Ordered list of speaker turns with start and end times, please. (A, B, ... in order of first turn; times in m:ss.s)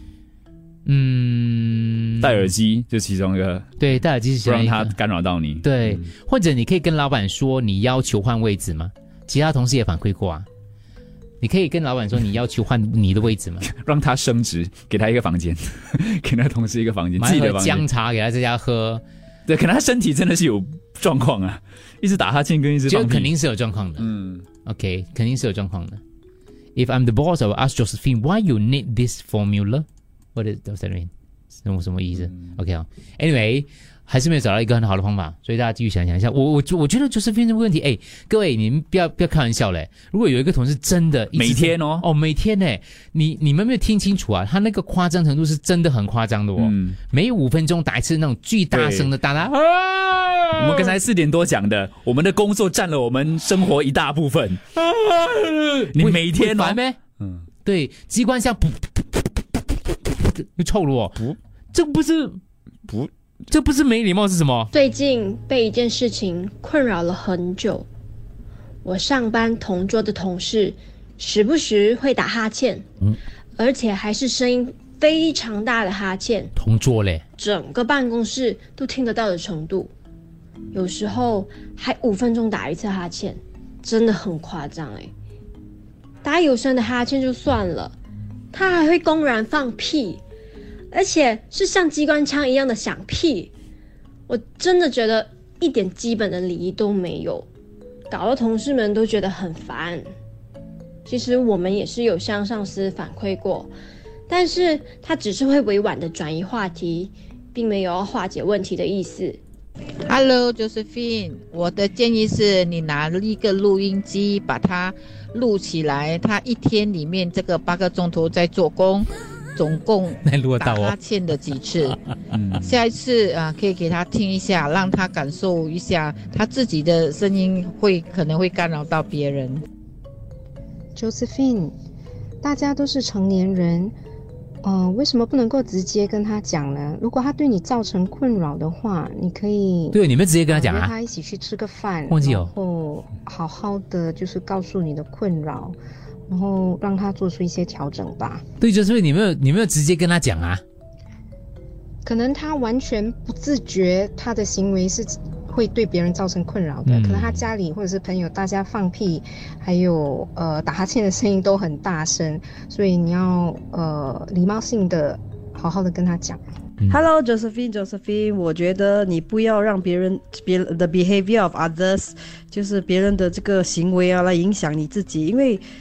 0:00.8-0:02.5 A
0:02.2-0:03.7 B
0:03.8-0:05.0 A
0:04.4-0:06.0 B
0:05.6-0:10.4 A
0:11.4-0:13.7 A
0:13.6-0:17.8 B
0:17.2-0:19.0 A
0:19.5-0:23.3 B
0:22.9-0:24.1 A
0:24.0-0:24.4 B
0:24.6-0:26.0 A
0:26.8-0:31.1 A
0:31.6-0:51.0 A
0:41.3-0:42.1 B
0:46.6-0:47.0 B
0:48.7-0:49.1 B
0:50.6-0:54.6 B
0:54.8-0:57.0 A
0:55.9-0:57.4 B
0:57.6-1:01.2 A
1:01.7-1:02.4 A
1:03.5-1:04.7 A
1:04.7-1:07.8 C
1:08.8-1:12.8 C
1:13.6-1:16.5 C
1:16.6-1:17.2 A
1:17.4-1:19.9 C
1:20.7-1:25.1 C
1:26.2-1:28.0 C
1:28.5-1:30.2 C
1:30.9-1:33.5 C
1:34.3-1:37.5 C
1:38.1-1:40.0 C
1:41.1-1:43.7 C
1:44.3-1:49.4 C
1:51.7-1:54.8 D
1:55.5-1:58.9 D
2:00.2-2:00.9 A
2:00.6-2:01.2 D
2:02.3-2:02.8 B
2:02.9-2:09.5 D
2:11.0-2:11.7 E
2:12.4-2:13.9 E
2:14.6-2:25.8 E
2:19.9-2:20.9 A
2:22.1-2:22.5 A
2:26.3-2:28.4 E
2:28.6-2:30.6 A
2:32.0-2:46.4 E
2:36.8-2:37.4 A
2:46.9-2:55.6 F